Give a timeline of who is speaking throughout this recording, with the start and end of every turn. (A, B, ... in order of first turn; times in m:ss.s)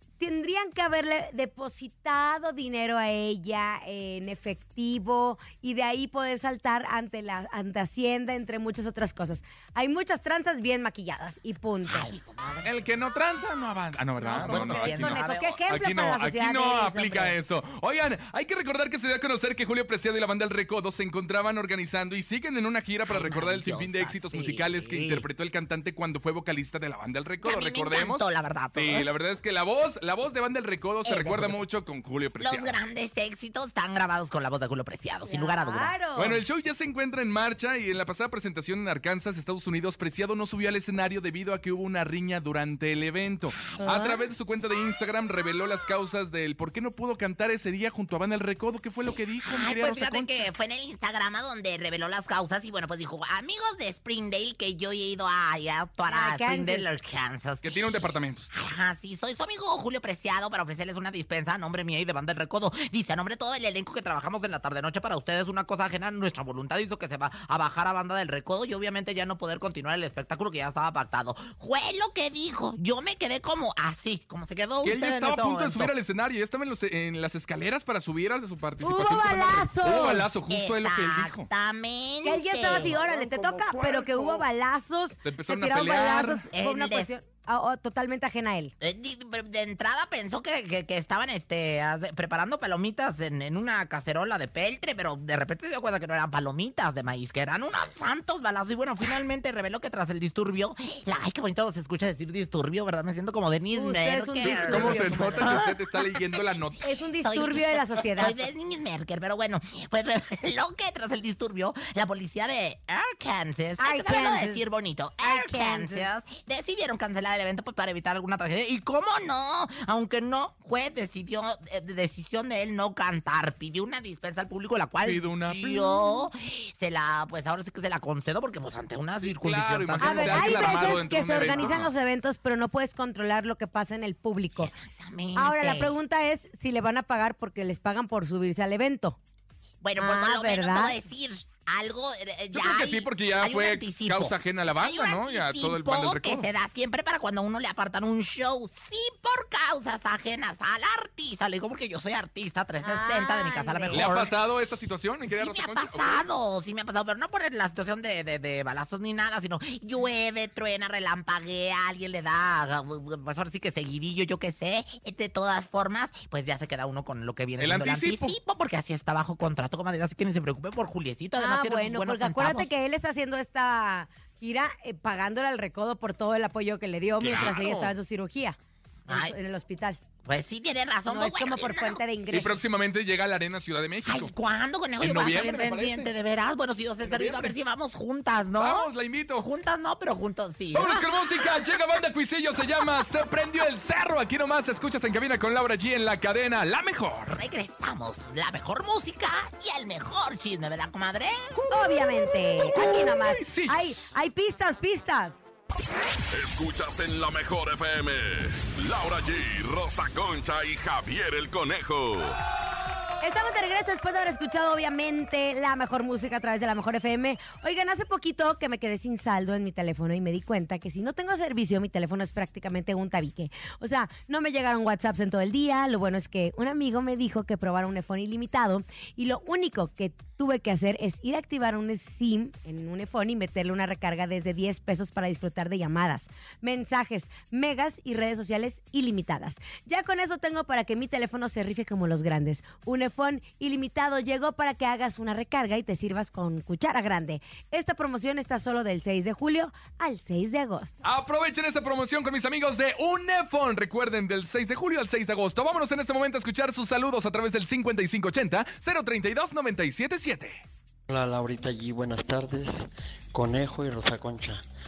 0:00.2-0:12.1 A
0:11.9-0:12.8 B
0:12.6-0:32.8 C
0:14.2-0:17.4 A
0:14.4-0:15.6 B
0:23.1-0:25.3 B
0:27.4-0:29.1 B
0:31.0-0:31.7 B
0:32.4-0:36.0 B
0:35.3-0:36.4 A
0:36.2-0:50.4 C
0:43.7-0:44.2 B
0:49.4-0:57.8 B
0:56.1-0:56.9 A
0:57.6-0:58.5 C
0:58.5-1:15.9 B
1:14.8-1:21.5 C
1:18.8-1:20.3 A
1:20.5-1:23.0 B
1:22.2-1:28.7 A
1:25.2-1:26.4 C
1:26.5-1:27.1 B
1:28.8-1:46.6 B
1:43.7-1:45.6 A
1:44.4-1:46.8 C
1:46.8-1:48.4 A
1:47.2-2:11.8 B
1:53.8-1:54.6 A
1:55.2-1:56.1 A
2:05.0-2:06.1 C
2:09.2-2:11.9 C
2:10.0-2:14.7 A
2:14.6-2:15.9 B
2:15.4-2:19.2 A
2:19.8-2:34.4 B
2:20.0-2:21.0 A
2:22.5-2:26.5 C
2:32.8-2:34.2 A
2:33.9-2:36.2 C
2:35.2-2:52.7 B
2:47.6-2:48.4 C
2:51.4-2:58.6 A
2:57.2-2:57.9 C
2:59.1-2:59.4 B
2:59.1-3:00.0 A
3:00.2-3:02.0 B
3:01.1-3:02.6 A
3:02.3-3:04.3 C
3:04.0-3:11.1 B
3:05.0-3:06.1 C
3:07.0-3:07.5 C
3:08.6-3:09.5 C
3:10.7-3:17.4 C
3:17.3-3:21.6 B
3:21.7-3:25.4 A
3:22.6-3:24.0 C
3:26.3-3:32.4 D
3:33.2-4:11.0 A
4:11.0-4:20.6 C
4:21.1-4:24.6 E